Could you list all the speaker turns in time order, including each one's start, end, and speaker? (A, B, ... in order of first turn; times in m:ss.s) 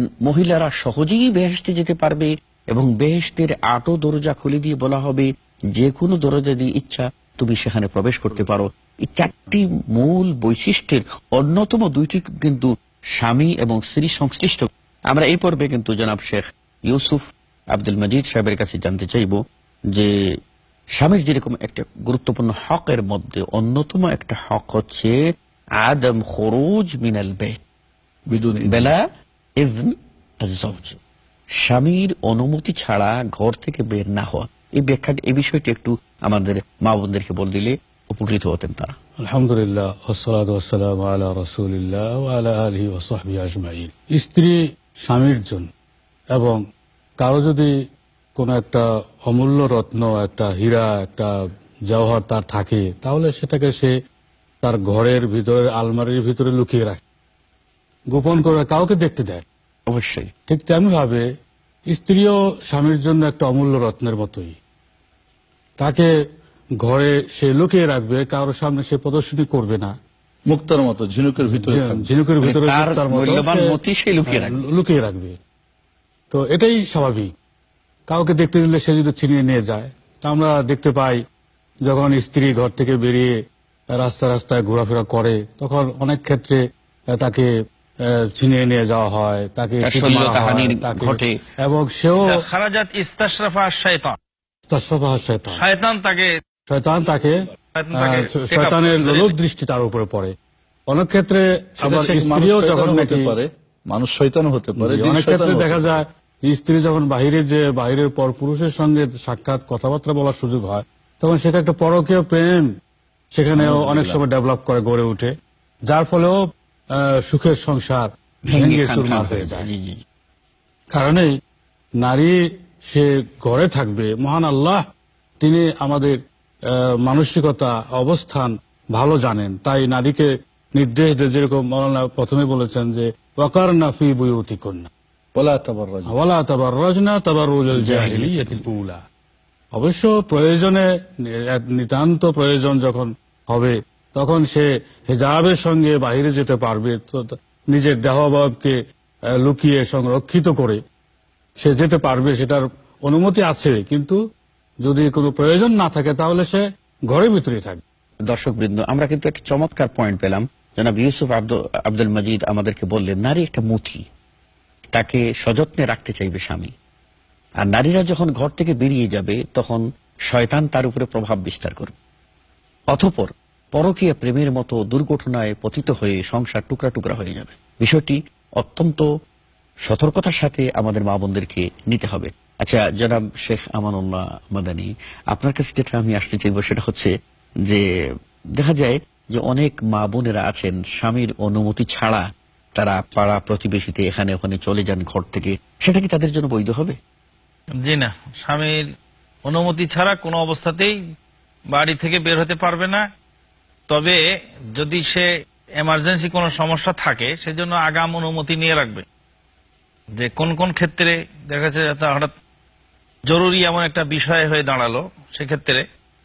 0:00.2-0:17.2 A
0:17.7-0:20.1 A
0:21.0-0:25.2 A
0:25.8-0:27.6 A
0:28.3-0:28.9 B
0:28.6-0:29.0 A
0:29.6-0:31.0 A
0:31.6-0:38.9 A
0:39.2-0:45.7 C
0:46.3-0:46.6 C
0:47.2-0:47.7 C
0:48.4-0:51.3 C
0:51.9-0:53.9 C
0:54.6-0:57.0 C
0:58.1-0:59.4 C
0:59.8-1:00.3 A
1:00.5-1:01.3 C
1:01.9-1:04.5 C
1:05.8-1:06.1 C
1:06.8-1:09.9 C
1:10.5-1:12.1 B
1:11.4-1:13.7 C
1:12.4-1:14.6 A
1:14.2-1:15.4 C
1:16.3-1:17.3 C
1:18.1-1:21.2 C
1:21.8-1:23.3 C
1:23.9-1:27.5 C
1:28.1-1:32.4 C
1:29.8-1:31.4 A
1:32.2-1:34.2 D
1:34.7-1:35.6 C
1:35.5-1:36.3 D
1:36.7-1:37.4 C
1:37.7-1:39.3 D
1:38.0-1:40.3 C
1:40.9-1:43.3 C
1:41.8-1:46.0 B
1:44.8-1:52.7 C
1:53.3-1:55.3 C
1:53.6-1:54.2 A
1:55.9-1:59.7 C
1:58.4-2:00.0 A
2:00.9-2:01.3 C
2:02.0-2:04.8 C
2:05.4-2:06.2 C
2:06.7-2:14.9 C
2:15.3-2:16.2 B
2:16.1-2:19.0 C
2:17.7-2:18.6 A
2:19.7-2:28.8 C
2:29.4-2:30.8 C
2:31.6-2:34.2 C
2:34.8-2:37.8 C
2:38.3-2:44.0 A
2:44.9-2:46.7 A
2:47.6-2:51.9 A
2:52.9-2:59.1 A
2:59.8-3:07.1 A
3:08.6-3:12.2 A
3:12.8-3:17.0 A
3:17.8-3:18.8 D
3:19.4-3:21.0 D
3:21.7-3:23.0 D
3:23.9-3:24.2 D
3:24.8-3:25.3 D
3:25.8-3:29.0 D
3:30.2-3:32.3 D
3:33.3-3:35.8 D